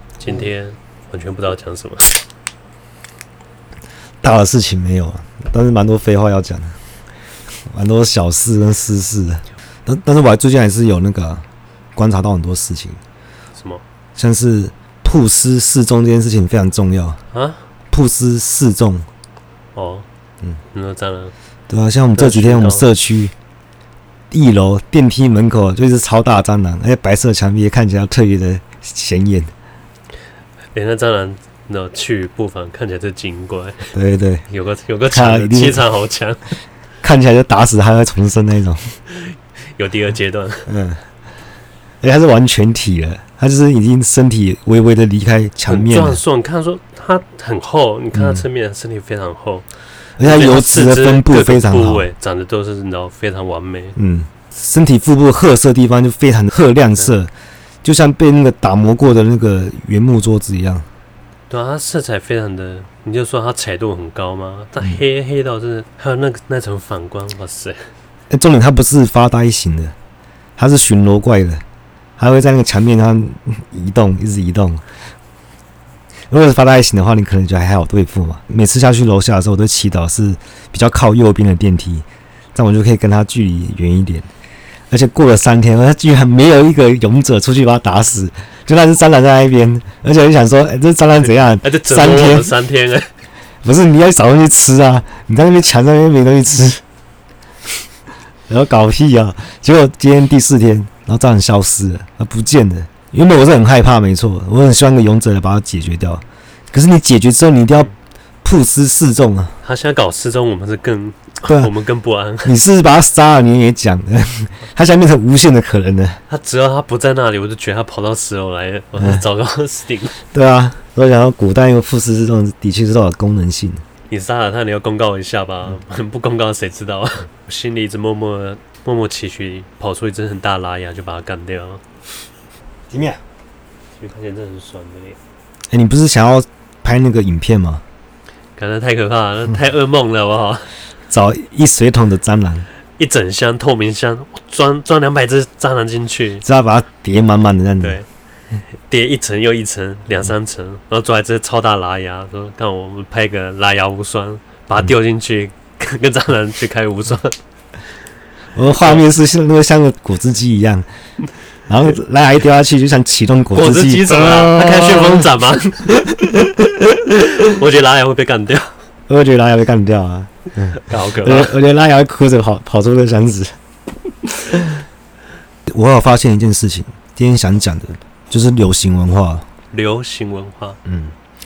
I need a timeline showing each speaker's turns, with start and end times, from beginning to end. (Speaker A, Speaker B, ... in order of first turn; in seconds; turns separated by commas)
Speaker A: 0.2-2.2, Speaker B: 4.2-6.8, Speaker B: 7.7-11.4, Speaker B: 11.9-13.0, Speaker A: 13.5-13.8, Speaker B: 14.2-17.2, Speaker A: 17.3-17.6, Speaker B: 17.9-19.1, Speaker A: 19.7-20.1, Speaker A: 20.7-21.3, Speaker B: 21.7-23.3, Speaker A: 22.1-22.8, Speaker B: 24.3-29.5, Speaker A: 30.7-33.9, Speaker B: 33.9-34.4, Speaker A: 34.5-36.5, Speaker B: 35.1-35.8, Speaker B: 37.0-38.9, Speaker A: 39.1-40.7, Speaker B: 40.7-41.0, Speaker B: 42.0-46.2, Speaker A: 45.7-49.7, Speaker B: 48.1-48.4, Speaker B: 50.2-52.0, Speaker A: 50.2-54.0, Speaker B: 54.0-57.3, Speaker B: 57.8-60.9, Speaker A: 61.5-67.8, Speaker B: 68.3-69.9, Speaker B: 70.6-71.6, Speaker B: 72.2-74.8, Speaker B: 76.3-84.3, Speaker B: 84.9-92.5, Speaker A: 91.6-93.1, Speaker B: 93.6-96.8, Speaker B: 98.5-107.9, Speaker B: 108.4-109.5, Speaker A: 109.6-112.5, Speaker B: 111.4-111.7, Speaker B: 112.4-116.2, Speaker A: 116.3-120.2, Speaker B: 119.0-119.2, Speaker B: 120.3-123.8, Speaker A: 124.1-131.8, Speaker B: 132.9-133.2, Speaker A: 133.9-135.2, Speaker B: 135.7-137.8, Speaker A: 138.6-140.7, Speaker B: 141.1-142.7, Speaker A: 143.0-146.4, Speaker B: 146.4-148.0, Speaker A: 147.8-148.1, Speaker A: 148.9-157.4, Speaker B: 158.5-160.9, Speaker A: 158.8-159.0, Speaker B: 161.7-165.3, Speaker A: 163.5-166.0, Speaker B: 165.9-167.2, Speaker A: 167.4-168.7, Speaker B: 169.1-173.5, Speaker A: 170.8-171.5, Speaker B: 175.7-179.5, Speaker A: 179.7-180.8, Speaker B: 180.8-181.1